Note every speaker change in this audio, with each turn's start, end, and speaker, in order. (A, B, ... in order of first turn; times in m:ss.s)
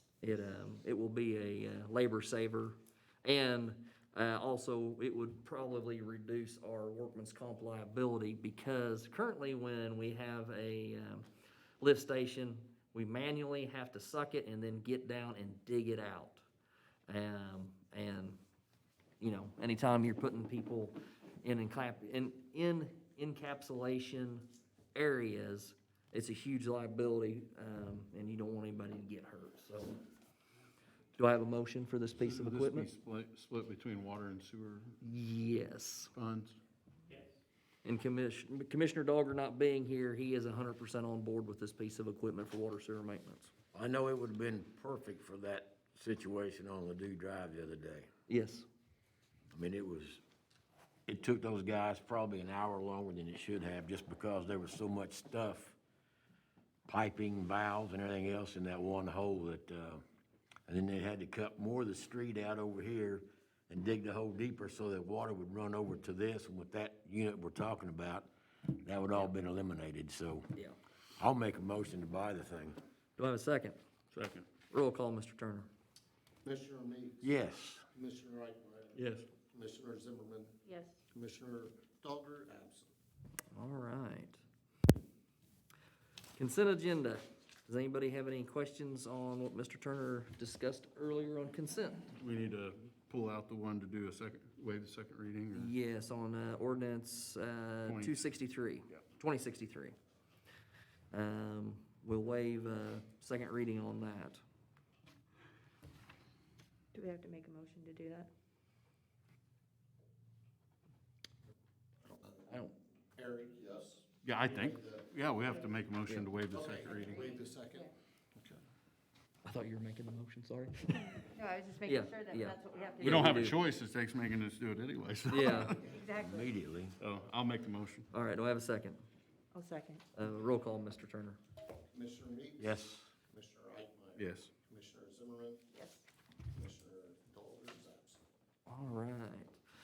0:00.2-0:11.3 A
0:11.8-0:16.4 A
0:17.1-0:18.4 A
0:19.2-0:30.0 A
0:31.2-0:32.9 A
0:32.2-0:35.0 B
0:35.0-0:36.1 A
0:36.1-0:36.6 B
0:37.8-0:43.5 A
0:43.7-0:48.1 C
0:48.3-0:48.6 A
0:49.5-0:50.2 C
0:51.1-0:55.8 C
0:56.9-1:00.0 C
1:00.7-1:10.5 C
1:11.2-1:12.8 C
1:13.2-1:13.8 A
1:14.1-1:14.5 B
1:14.7-1:15.7 A
1:16.4-1:17.3 D
1:17.2-1:17.9 C
1:17.9-1:22.9 D
1:18.9-1:19.3 B
1:20.6-1:21.0 E
1:23.5-1:24.4 A
1:26.4-1:32.1 A
1:32.1-1:35.7 B
1:35.5-1:39.9 A
1:37.8-1:38.2 B
1:41.1-1:44.4 A
1:46.9-1:48.3 E
1:52.2-1:52.6 D
1:52.5-1:52.7 A
1:53.1-1:55.1 D
1:54.2-1:57.3 B
1:56.5-1:58.6 D
1:59.4-2:01.2 A
2:01.3-2:03.4 E
2:01.8-2:03.6 A
2:03.0-2:05.9 B
2:05.3-2:05.8 A
2:05.6-2:06.5 E
2:06.1-2:07.0 C
2:07.0-2:08.1 B
2:08.1-2:09.0 A
2:09.5-2:10.0 E
2:10.1-2:11.4 A
2:11.9-2:15.7 D
2:12.6-2:13.1 C
2:14.2-2:14.5 B
2:15.7-2:16.0 E
2:16.5-2:18.2 D
2:18.7-2:19.6 A